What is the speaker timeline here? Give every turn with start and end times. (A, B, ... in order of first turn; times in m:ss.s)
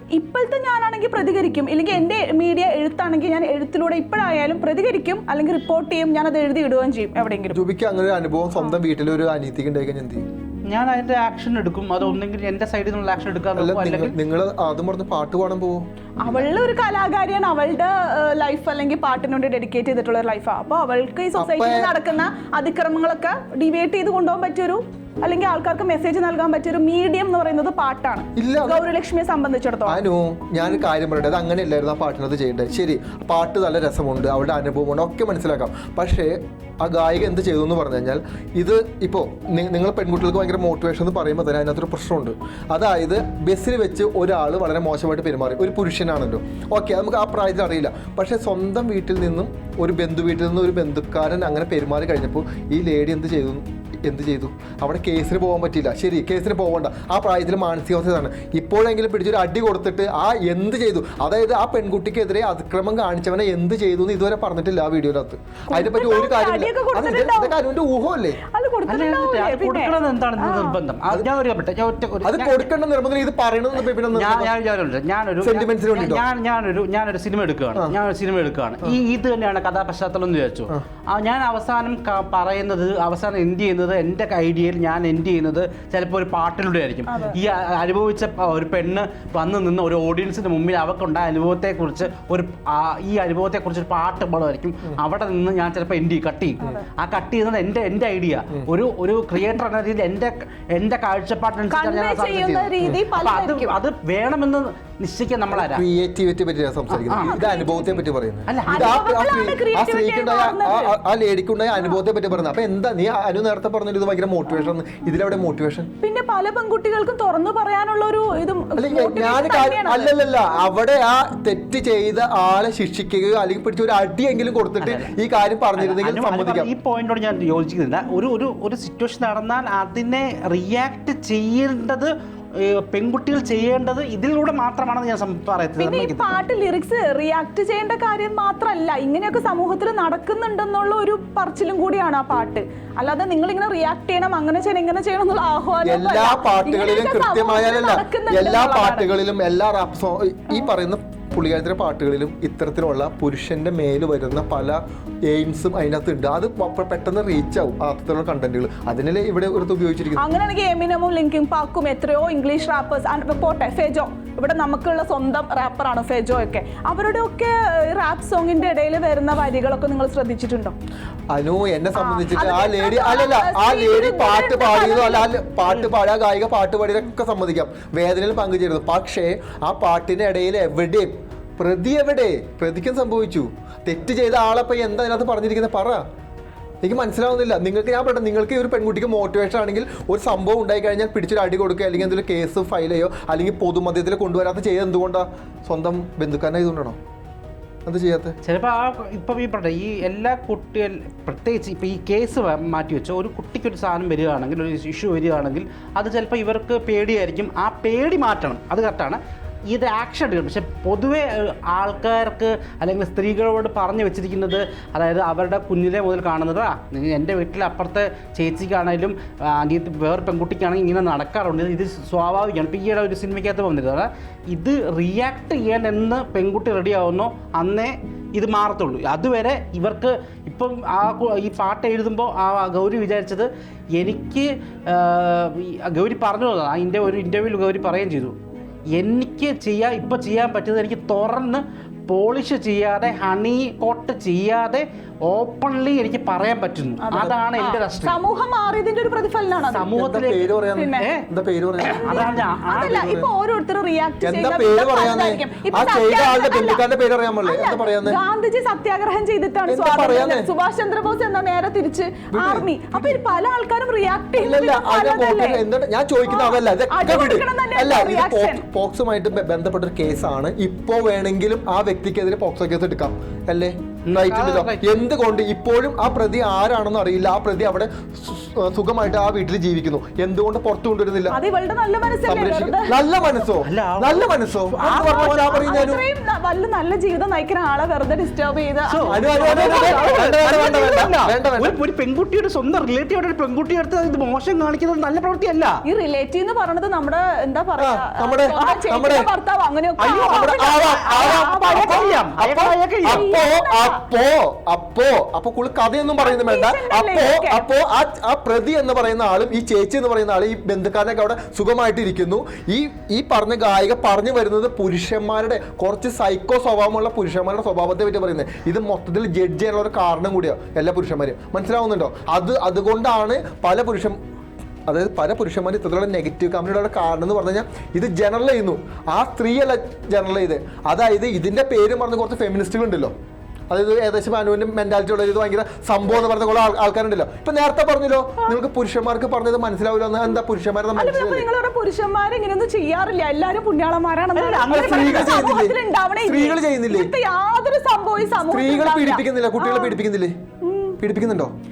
0:00.1-0:07.6 A
0:07.5-0:10.2 B
0:10.7-0:14.1 C
0:13.6-0:16.5 B
0:16.2-0:30.0 A
0:21.4-0:21.9 B
0:28.4-0:28.8 B
0:29.9-1:08.4 B
1:05.7-1:07.5 A
1:08.4-1:10.8 A
1:08.9-1:12.6 C
1:12.2-1:14.5 B
1:14.1-1:45.8 C
1:15.4-1:16.2 B
1:27.1-1:27.4 A
1:41.7-1:43.7 A
1:45.5-1:55.9 B
1:46.9-1:47.4 C
1:47.2-1:48.0 A
1:48.5-1:49.0 C
1:48.7-1:50.9 A
1:56.0-2:00.1 A
1:58.8-2:06.7 B
2:04.8-2:05.1 C
2:05.8-2:16.4 C
2:15.8-2:29.1 A
2:25.8-2:40.2 B
2:40.2-2:50.7 A
2:51.3-3:06.0 B
2:51.9-2:55.3 A
3:06.8-3:17.0 B
3:17.8-3:18.4 B
3:18.4-3:29.2 C
3:29.7-3:58.3 C
3:58.9-4:08.2 C
4:07.0-4:09.9 A
4:09.7-4:11.2 C
4:09.9-4:13.3 B
4:10.7-4:11.1 A
4:11.8-4:16.8 A
4:11.8-4:13.2 C
4:14.2-4:18.2 B
4:17.4-4:25.6 A
4:19.7-4:20.5 B
4:22.3-4:23.2 B
4:24.4-4:41.4 B
4:26.2-4:28.6 A
4:34.1-4:34.8 C
4:41.3-4:43.0 A
4:42.2-4:46.0 B
4:43.6-4:45.4 C
4:44.8-4:51.1 A
4:48.9-4:55.8 C
4:49.0-4:51.8 B
4:55.8-5:02.2 A
4:57.8-4:59.3 B
5:00.0-5:03.3 C
5:00.2-5:24.1 B
5:03.1-5:04.0 A
5:06.2-5:07.6 A
5:24.9-5:33.1 B
5:33.7-5:41.5 B
5:41.0-5:50.0 A
5:44.3-5:45.4 C
5:44.7-5:47.1 B
5:48.5-5:50.3 B
5:50.6-5:51.0 A
5:51.0-5:51.5 B